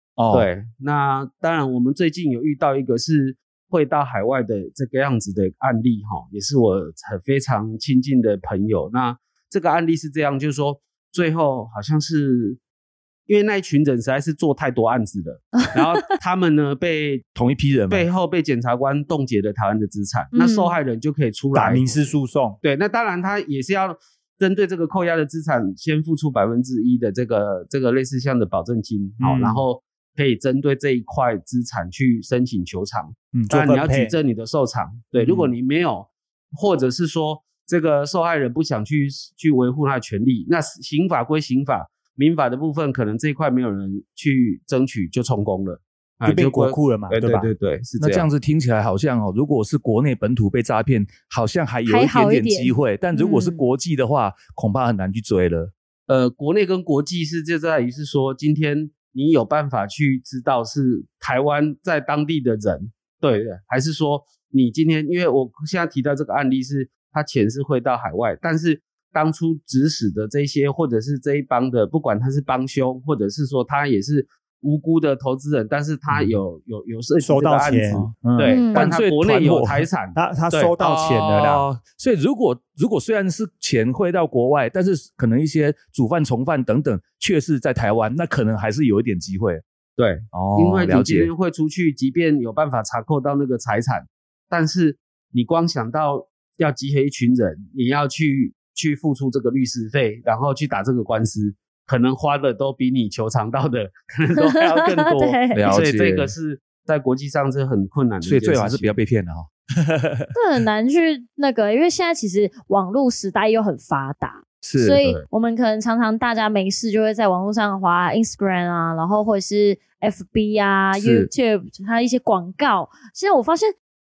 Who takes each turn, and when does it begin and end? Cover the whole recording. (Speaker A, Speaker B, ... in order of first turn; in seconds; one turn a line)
Speaker A: 0.2-0.5
Speaker B: 0.3-12.6
Speaker B: 13.3-17.2
Speaker A: 17.3-18.1
Speaker B: 17.9-21.9
Speaker C: 20.3-20.8
Speaker D: 21.5-22.6
Speaker B: 22.6-48.3
Speaker D: 29.2-29.6
Speaker D: 33.3-34.1
Speaker A: 35.2-35.5
Speaker D: 46.2-47.5
Speaker A: 48.0-55.7
Speaker C: 51.9-53.6
Speaker B: 56.1-80.7
Speaker D: 77.2-78.6
Speaker C: 78.4-78.9
Speaker A: 78.7-79.9
Speaker D: 80.1-81.6
Speaker A: 80.8-89.6
Speaker B: 90.0-109.0
Speaker A: 90.3-91.3
Speaker C: 104.4-105.7
Speaker A: 105.5-106.3
Speaker A: 108.2-110.3
Speaker C: 110.3-123.7
Speaker A: 114.6-115.0
Speaker A: 120.9-121.3